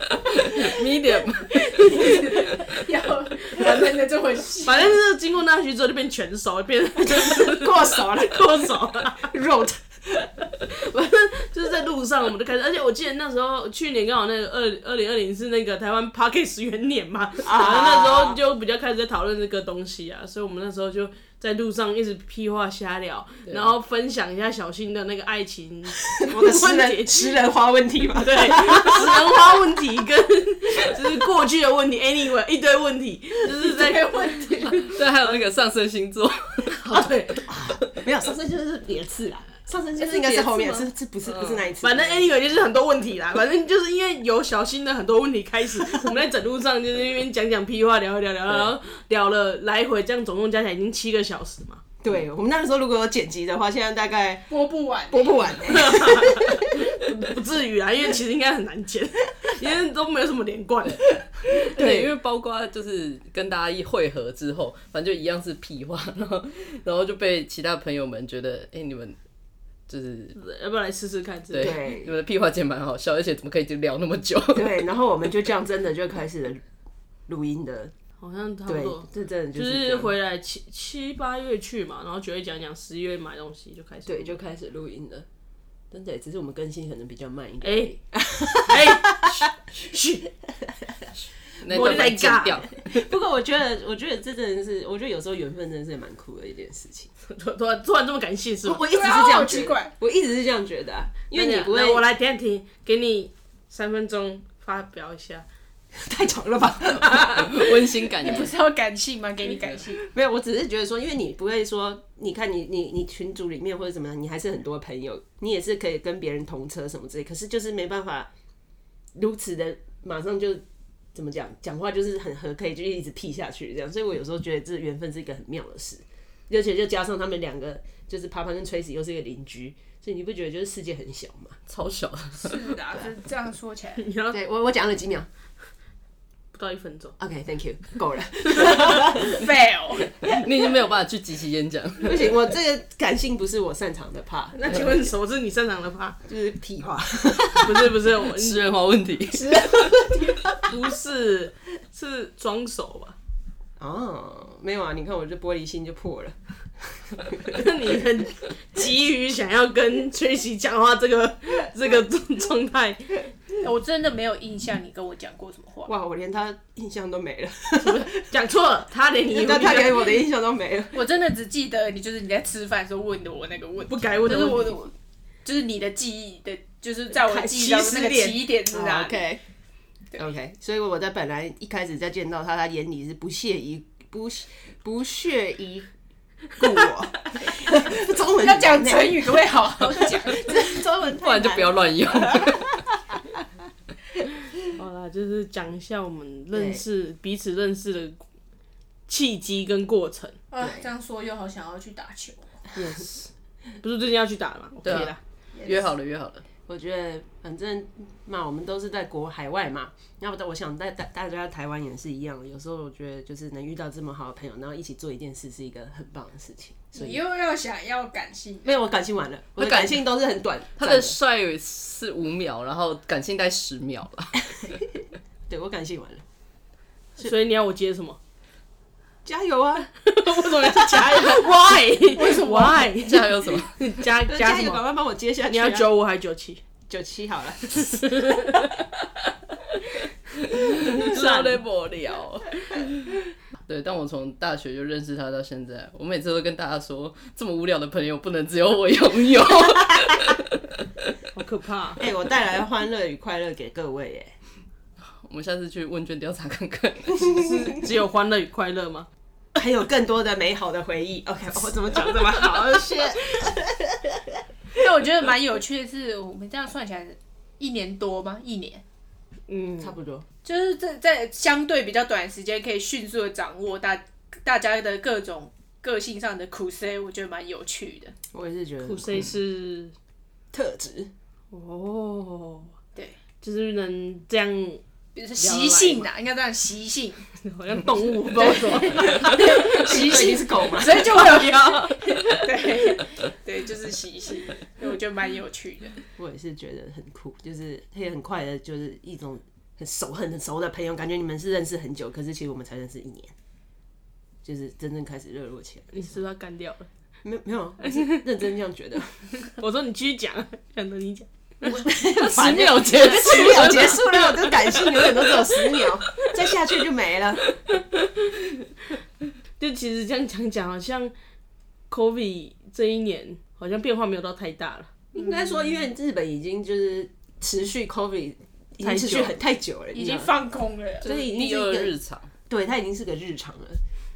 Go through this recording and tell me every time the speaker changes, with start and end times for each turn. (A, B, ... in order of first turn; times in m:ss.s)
0:00.3-0:02.4 A
0:01.7-0:05.0 B
0:03.6-0:03.9 C
0:04.6-0:09.3 C
0:07.0-0:10.5 D
0:10.7-0:27.4 C
0:17.4-0:18.4 D
0:26.1-0:29.3 D
0:28.2-0:34.8 C
0:33.8-0:34.9 B
0:34.8-0:36.7 A
0:36.7-0:37.5 C
0:37.4-0:42.3 D
0:40.0-0:41.7 A
0:41.8-0:51.8 C
0:52.0-0:54.5 D
0:54.5-0:55.4 B
0:55.1-0:56.8 D
0:55.7-1:01.0 C
1:01.0-1:09.2 A
1:01.6-1:02.1 D
1:09.9-1:10.4 A
1:10.3-1:11.8 C
1:11.5-1:14.8 A
1:11.6-1:12.1 D
1:14.5-1:16.6 D
1:17.3-1:17.9 D
1:18.2-1:24.4 C
1:18.7-1:20.1 D
1:24.0-1:25.3 D
1:25.9-1:29.5 D
1:27.6-1:29.2 C
1:29.8-1:30.3 C
1:31.6-1:33.1 A
1:31.7-1:37.1 D
1:31.7-1:32.6 C
1:37.3-1:38.8 C
1:38.6-1:42.0 D
1:38.9-1:39.9 B
1:41.3-1:45.4 C
1:45.9-1:47.7 D
1:47.3-1:48.5 A
1:48.2-1:50.0 B
1:49.5-1:49.8 A
1:49.9-1:58.3 D
1:59.1-2:00.6 D
2:01.1-2:11.6 D
2:11.7-2:12.8 A
2:12.4-2:14.1 B
2:14.0-2:14.4 C
2:14.3-2:15.3 D
2:16.5-2:17.1 C
2:17.2-2:19.4 D
2:19.1-2:20.2 B
2:20.2-2:22.3 A
2:22.0-2:25.1 D
2:24.5-2:26.2 C
2:26.2-2:28.0 D
2:27.6-2:28.7 C
2:28.2-2:30.0 A
2:29.4-2:30.5 B
2:29.7-2:30.3 D
2:30.6-2:33.1 C
2:33.8-2:37.7 D
2:37.5-2:43.2 C
2:43.6-2:45.9 B
2:45.8-2:48.2 D
2:47.8-2:50.1 C
2:49.3-2:51.0 D
2:50.9-2:54.9 B
2:53.9-2:54.8 C
2:55.4-2:59.2 B
2:57.1-2:58.5 C
2:58.7-2:59.4 D
3:00.2-3:05.9 D
3:06.5-3:12.6 D
3:08.3-3:10.7 B
3:11.1-3:12.8 A
3:14.8-3:18.2 C
3:16.5-3:16.8 D
3:19.1-3:20.4 C
3:20.5-3:22.5 B
3:20.6-3:20.9 D
3:22.8-3:23.3 C
3:23.8-3:25.2 C
3:24.8-3:26.4 A
3:25.6-3:25.9 B
3:26.7-3:37.2 D
3:36.9-3:38.7 B
3:38.6-3:41.2 D
3:39.6-3:40.0 A
3:40.8-3:44.7 A
3:45.5-3:46.2 D
3:47.2-3:48.2 C
3:49.2-3:49.9 D
3:50.0-3:54.8 C
3:52.1-3:52.9 B
3:53.0-3:53.8 A
3:54.2-3:55.9 D
3:55.5-3:56.6 C
3:56.9-3:58.3 D
3:58.0-3:58.6 C
4:00.5-4:03.1 A
4:00.9-4:01.6 C
4:03.7-4:10.7 A
4:11.3-4:12.0 C
4:12.0-4:14.3 D
4:15.0-4:17.4 A
4:17.2-4:19.1 C
4:19.5-4:24.4 D
4:24.8-4:28.8 B
4:29.5-4:29.8 C
4:29.7-4:30.2 D
4:30.4-4:38.1 B
4:38.3-4:39.1 D
4:38.8-4:39.9 C
4:40.5-4:41.1 D
4:41.5-4:42.7 C
4:43.4-4:44.8 C
4:45.1-4:47.2 B
4:45.4-4:46.0 C
4:47.4-4:49.9 C
4:48.4-4:56.0 B
4:48.9-4:51.5 D
4:56.2-5:03.3 D
5:04.4-5:06.2 D
5:05.9-5:06.9 C
5:07.2-5:09.1 D
5:07.8-5:08.2 C
5:09.4-5:11.8 C
5:11.6-5:17.4 D
5:11.9-5:14.0 A
5:12.9-5:14.0 C
5:17.7-5:18.3 C
5:19.6-5:21.1 C
5:21.9-5:24.9 C
5:25.1-5:25.7 B
5:25.1-5:30.3 D
5:28.8-5:29.3 C
5:29.9-5:31.8 B
5:31.0-5:31.9 D
5:31.0-5:32.3 A
5:32.5-5:33.8 D